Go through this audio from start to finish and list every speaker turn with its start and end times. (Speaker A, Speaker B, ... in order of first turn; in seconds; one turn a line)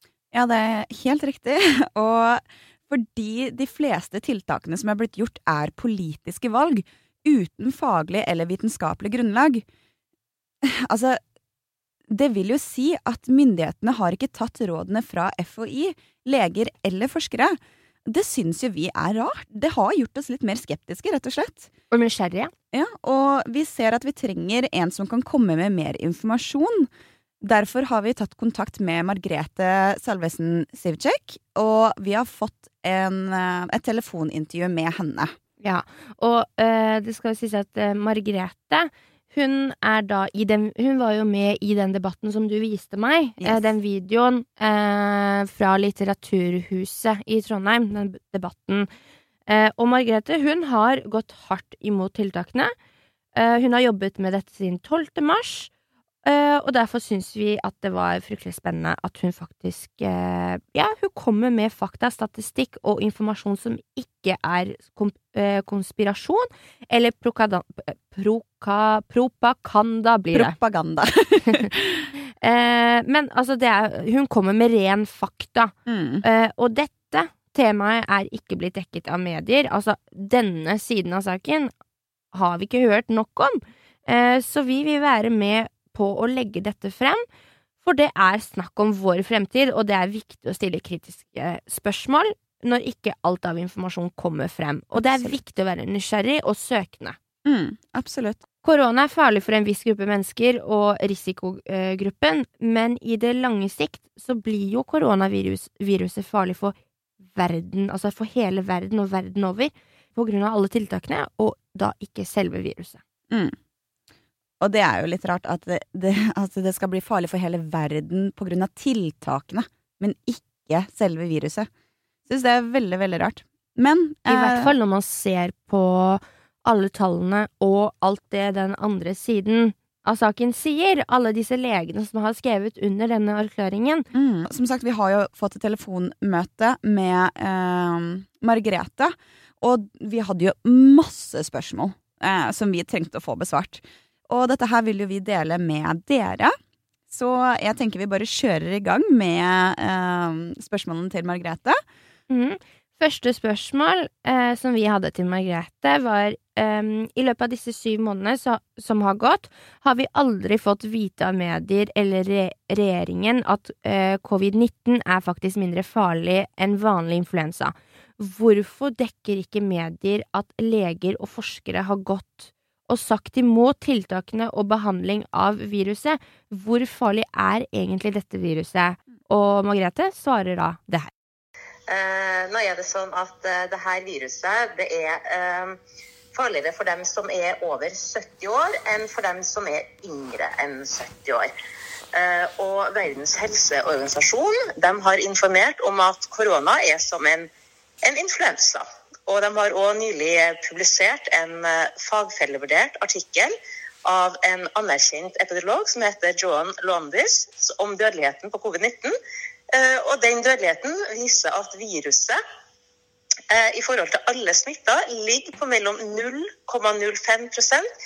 Speaker A: 0.3-9.6
Speaker A: 10.6-11.2
Speaker A: 12.1-21.7
Speaker B: 21.9-22.5
Speaker A: 22.7-26.9
Speaker A: 27.4-35.3
Speaker B: 35.6-48.9
Speaker A: 43.4-43.7
Speaker B: 49.5-52.7
Speaker B: 53.4-55.7
Speaker B: 56.2-70.5
Speaker A: 70.3-72.1
Speaker B: 72.4-81.7
Speaker A: 75.8-76.2
Speaker B: 82.3-87.2
Speaker B: 87.8-97.2
Speaker A: 95.0-95.3
Speaker A: 97.4-98.4
Speaker B: 98.6-106.7
Speaker B: 107.3-113.0
Speaker A: 113.3-113.5
Speaker A: 114.6-121.7
Speaker A: 122.3-124.7
Speaker B: 124.2-134.0
Speaker A: 134.1-146.5
Speaker A: 147.1-151.8
Speaker B: 152.3-181.1
Speaker C: 181.9-185.8
Speaker C: 186.3-191.5
Speaker C: 192.1-197.5
Speaker C: 198.0-203.5
Speaker C: 204.0-209.1
Speaker C: 209.7-212.4
Speaker C: 213.5-217.8